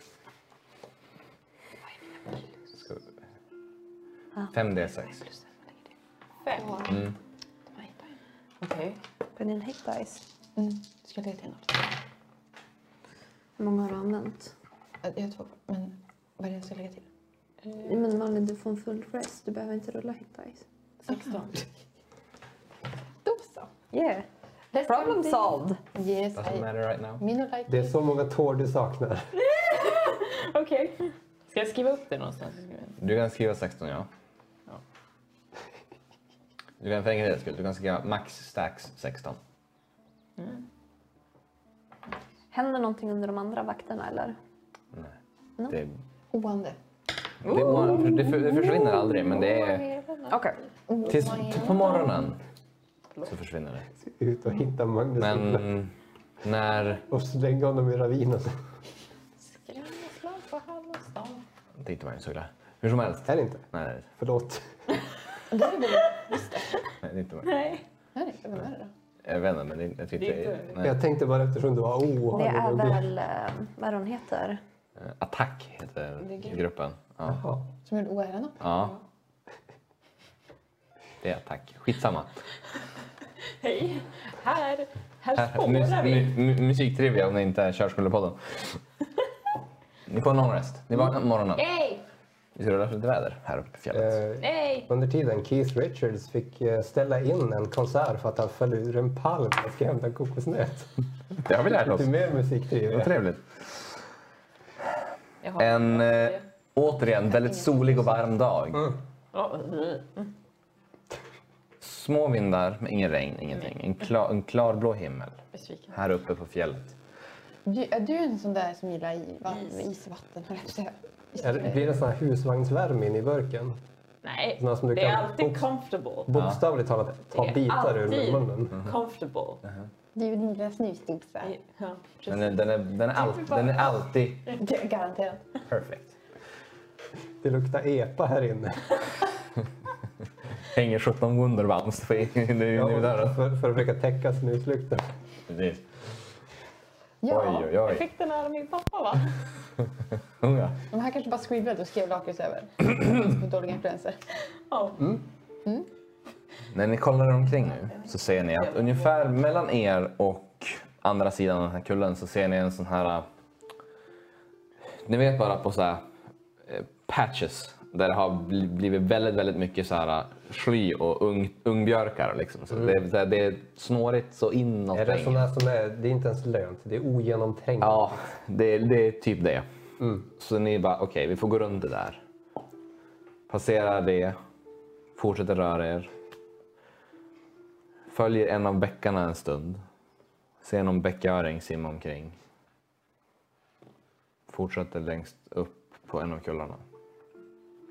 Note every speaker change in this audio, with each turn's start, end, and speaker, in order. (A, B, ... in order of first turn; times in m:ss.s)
0:04.5-0:05.2 A
0:06.4-0:06.8 B
0:06.5-0:07.0 C
0:06.8-0:07.2 A
0:08.6-0:09.0 B
0:09.4-0:10.2 D
0:10.6-0:11.9 C
0:13.6-0:14.5 D
0:15.0-0:17.1 C
0:17.7-0:17.9 B
0:17.8-0:20.6 D
0:21.1-0:21.6 C
0:21.1-0:21.5 B
0:23.2-0:23.7 C
0:23.9-0:24.3 D
0:24.7-0:26.7 C
0:24.8-0:25.8 D
0:26.4-0:27.2 A
0:27.2-0:28.0 C
0:27.7-0:29.5 E
0:29.4-0:33.0 B
0:33.0-0:34.1 A
0:36.8-0:39.4 A
0:40.4-0:40.6 B
0:42.5-0:44.4 D
0:45.7-0:46.0 A
0:46.3-0:46.8 C
0:47.4-0:49.9 A
0:47.5-0:48.2 B
0:49.4-0:50.4 B
0:50.3-0:50.6 D
0:50.9-0:52.2 C
0:51.1-0:52.4 A
0:53.2-0:53.9 A
0:54.0-0:55.7 E
0:55.2-0:57.0 A
0:57.1-0:58.6 E
0:59.4-1:01.4 B
1:01.8-1:04.1 A
1:03.3-1:03.7 E
1:04.2-1:04.7 E
1:05.5-1:06.8 C
1:07.0-1:07.7 A
1:07.4-1:07.8 B
1:08.2-1:08.9 C
1:09.2-1:11.0 A
1:10.2-1:10.8 B
1:10.8-1:13.1 E
1:12.3-1:14.6 D
1:15.0-1:17.4 A
1:16.2-1:16.6 B
1:17.3-1:17.7 E
1:17.8-1:18.7 C
1:18.6-1:19.0 A
1:21.2-1:22.4 A
1:23.6-1:26.4 B
1:25.4-1:28.8 A
1:30.1-1:31.6 A
1:31.6-1:32.0 B
1:32.6-1:34.2 A
1:33.9-1:40.9 E
1:34.4-1:34.9 B
1:41.4-1:42.2 A
1:41.8-1:43.1 E
1:42.9-1:43.7 A
1:45.4-1:46.4 B
1:45.6-1:49.0 A
1:49.3-1:50.3 B
1:51.8-1:57.0 A
1:55.5-1:55.9 B
1:57.6-2:01.9 C
2:01.4-2:03.8 E
2:04.2-2:06.3 B
2:04.6-2:05.7 E
2:06.3-2:08.8 E
2:07.3-2:09.6 B
2:10.2-2:11.6 C
2:11.4-2:14.6 B
2:12.3-2:14.6 A
2:14.6-2:15.5 C
2:15.7-2:16.2 A
2:17.4-2:19.0 E
2:20.7-2:23.4 A
2:22.7-2:25.1 E
2:25.5-2:25.8 A
2:27.2-2:27.7 C
2:27.3-2:28.1 A
2:27.8-2:29.4 B
2:30.4-2:30.8 A
2:30.9-2:34.2 C
2:34.7-2:35.0 B
2:35.0-2:35.2 E
2:36.7-2:43.3 A
2:38.6-2:39.0 B
2:45.0-2:46.1 A
2:46.6-2:55.5 A
2:54.9-2:58.1 E
2:57.8-2:59.7 A
3:00.0-3:00.3 E
3:00.4-3:02.2 A
3:03.5-3:04.4 A
3:05.2-3:06.1 A
3:08.1-3:09.8 A
3:10.6-3:12.4 A
3:14.5-3:16.8 A